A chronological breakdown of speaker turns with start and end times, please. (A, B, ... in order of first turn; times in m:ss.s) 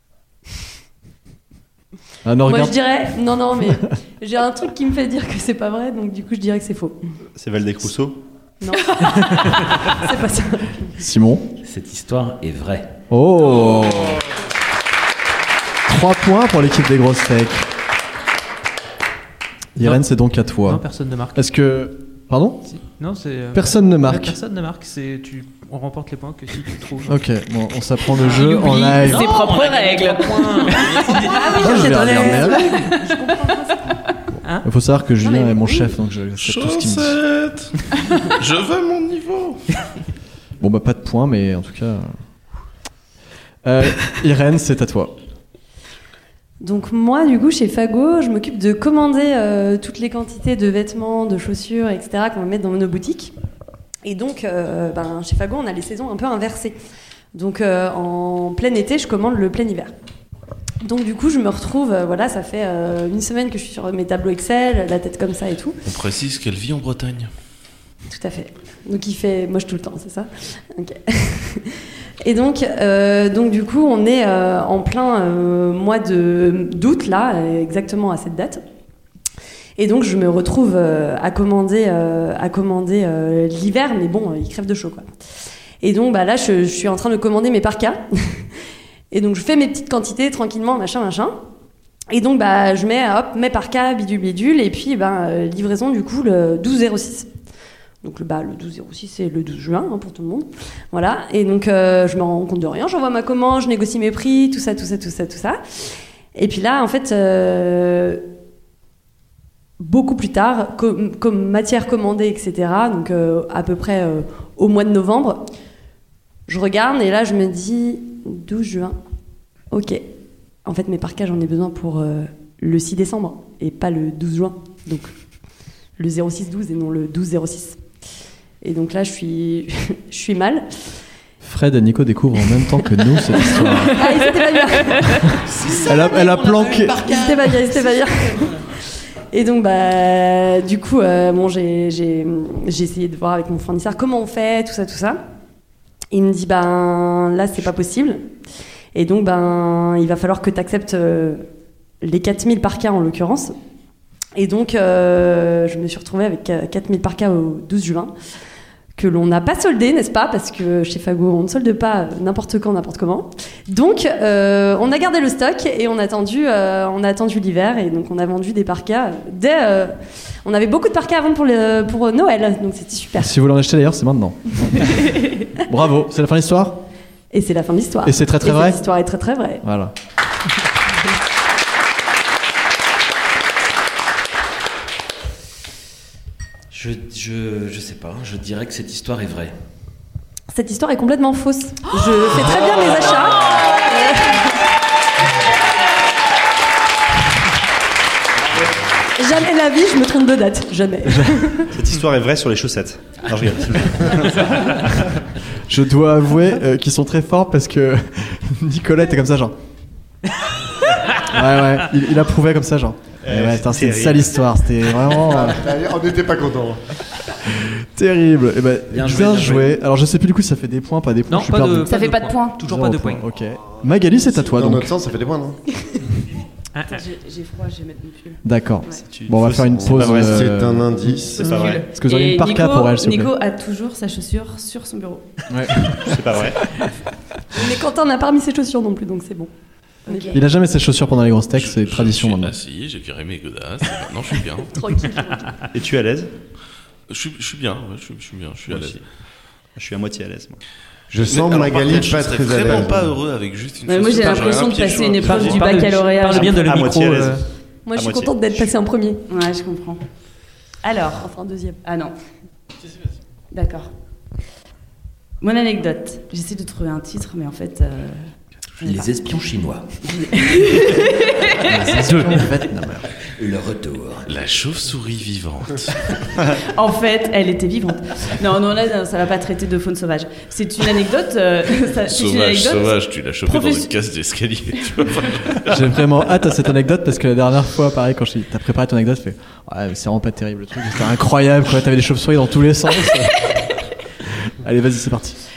0:02.2-0:02.8 A
0:02.4-0:07.0 B
0:07.3-0:08.2 C
0:08.6-0:10.9 B
0:11.0-0:11.5 A
0:11.6-0:13.0 D
0:13.1-0:14.2 A
0:15.9-0:17.7 A
0:19.8-0:22.7 A
0:19.8-0:20.0 E
0:20.6-0:21.4 E
0:22.7-0:27.2 E
0:23.5-0:24.4 A
0:27.1-0:29.3 A
0:28.2-0:32.3 D
0:28.2-0:29.0 E
0:28.6-0:32.6 F
0:30.8-0:32.0 E
0:31.5-0:32.8 A
0:33.0-0:33.8 B
0:34.6-0:37.2 A
0:35.2-0:35.9 B
0:36.4-0:39.6 G
0:40.6-0:42.1 A
0:43.6-0:45.1 A
0:46.6-0:53.3 B
0:54.0-0:56.8 B
0:57.3-0:59.9 B
1:00.8-1:05.8 B
1:05.8-1:07.3 G
1:08.1-1:11.7 B
1:12.2-1:18.6 B
1:19.8-1:25.0 B
1:25.8-1:28.5 B
1:29.1-1:31.4 B
1:32.1-1:37.3 B
1:38.0-1:45.6 B
1:46.3-1:48.2 B
1:49.8-1:55.5 B
1:56.5-1:59.0 B
1:59.7-2:00.0 B
2:00.6-2:05.1 B
2:06.0-2:07.8 B
2:08.6-2:10.7 B
2:11.4-2:14.1 A
2:13.3-2:15.3 B
2:14.0-2:15.3 F
2:15.1-2:17.7 A
2:15.8-2:18.6 B
2:19.3-2:25.2 B
2:26.1-2:28.3 B
2:28.9-2:31.4 B
2:32.0-2:33.5 B
2:34.4-2:38.1 B
2:39.0-2:53.3 B
2:53.2-2:55.1 A
2:55.6-2:56.8 A
2:57.3-2:59.6 B
2:58.0-2:58.8 A
2:59.6-2:59.9 A
3:06.7-3:09.5 D
3:10.5-3:14.6 B
3:19.2-3:21.7 B
3:21.1-3:21.4 A
3:21.7-3:25.2 C
3:25.7-3:29.5 A
3:31.2-3:35.6 A
3:33.2-3:34.3 C
3:35.2-3:36.8 H
3:37.6-3:42.0 A
3:38.9-3:39.8 D
3:41.3-3:43.2 E
3:41.9-3:42.6 F
3:42.6-3:44.9 A
3:44.4-3:45.6 H
3:46.7-3:47.0 E
3:46.9-3:48.4 F
3:48.4-3:50.9 A
3:48.9-3:50.5 C
3:49.7-3:51.6 H
3:51.4-3:55.3 F
3:51.4-3:51.8 C
3:51.9-3:53.3 A
3:55.5-3:56.5 A
3:56.0-3:56.6 C
3:57.5-3:59.5 B
4:00.0-4:00.4 B
4:00.3-4:02.5 A
4:01.6-4:04.9 G
4:04.7-4:05.6 B
4:05.7-4:06.3 C
4:07.1-4:09.0 G
4:08.7-4:09.0 C
4:09.8-4:10.6 C
4:11.1-4:13.1 H
4:11.2-4:15.8 G
4:13.8-4:16.6 F
4:15.1-4:17.5 E
4:16.3-4:18.7 C
4:17.8-4:19.2 B
4:19.3-4:20.0 F
4:20.8-4:21.2 F
4:21.2-4:21.8 B
4:21.8-4:22.1 F
4:23.5-4:23.9 F
4:25.4-4:28.3 F
4:28.8-4:30.0 D
4:30.1-4:31.8 F
4:31.7-4:33.0 A
4:32.0-4:34.3 D
4:34.2-4:36.1 G
4:36.6-4:43.9 F
4:42.1-4:45.8 G
4:45.6-4:53.4 A
4:53.5-4:53.7 F
4:54.3-4:55.4 A